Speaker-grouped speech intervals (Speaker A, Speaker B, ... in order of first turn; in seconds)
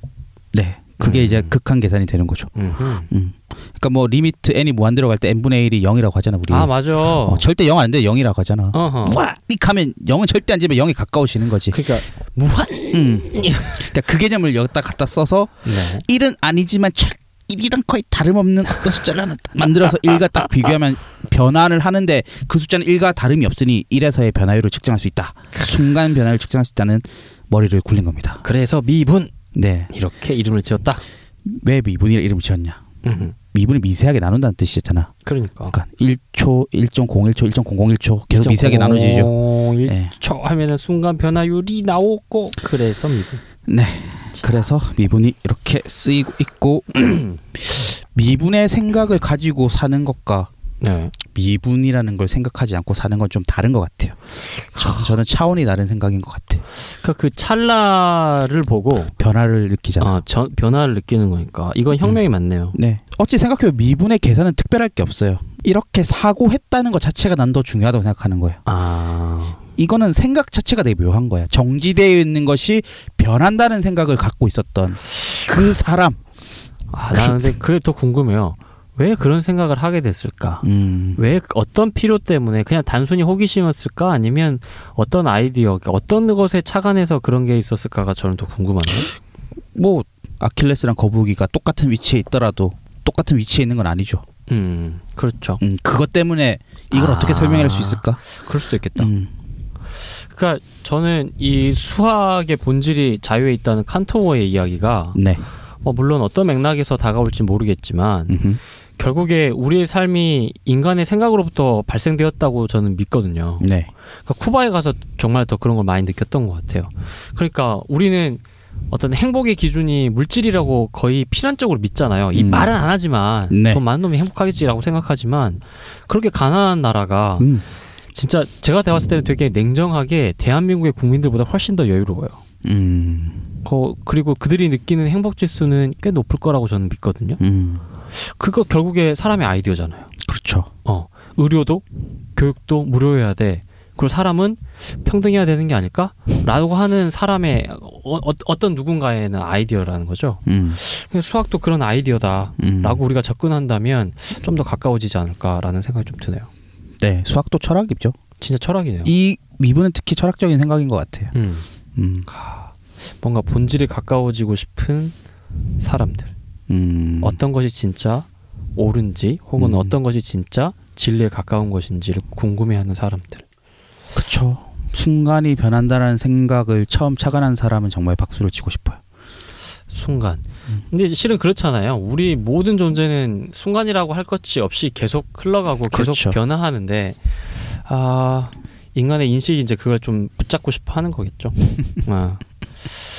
Speaker A: 0.5-2.5, 3.1-11.8, 12.9-28.4, 29.5-29.9, 31.4-32.8, 33.4-35.1, 35.7-39.3, 39.9-40.1, 43.7-50.5, 51.2-54.2, 54.7-56.6, 59.2-60.2, 62.7-68.6, 69.8-76.2, 77.1-77.6, 80.6-81.2, 89.7-94.2, 95.6-98.2, 99.0-99.3, 105.1-105.4, 108.3-108.6, 113.6-113.9, 122.3-122.7, 123.5-123.8, 127.4-127.6, 132.6-133.5, 137.4-137.8, 140.2-140.7, 150.4-150.8, 152.6-153.0, 157.0-158.1, 159.1-161.3, 161.9-162.3, 166.7-167.4, 169.6-169.9, 174.1-179.0, 185.9-186.4
Speaker B: 1.0-1.5, 2.5-3.1, 6.5-7.5, 8.7-9.2, 11.7-13.8, 15.7-16.1, 28.4-29.3, 29.9-31.0, 33.0-33.4, 35.2-35.8, 38.3-43.4, 47.0-47.4, 50.8-51.1, 54.7-55.1, 57.0-59.1, 60.0-62.8, 68.7-69.6, 76.9-89.1, 94.5-95.6, 96.9-99.1, 100.3-105.2, 105.8-108.4, 109.0-113.7, 114.3-127.5, 128.1-132.4, 133.6-137.4, 138.1-140.1, 140.8-141.8, 142.3-156.5, 158.4-159.1, 161.3-161.7, 162.3-165.1, 165.8-166.3, 167.2-173.4, 179.9-192.4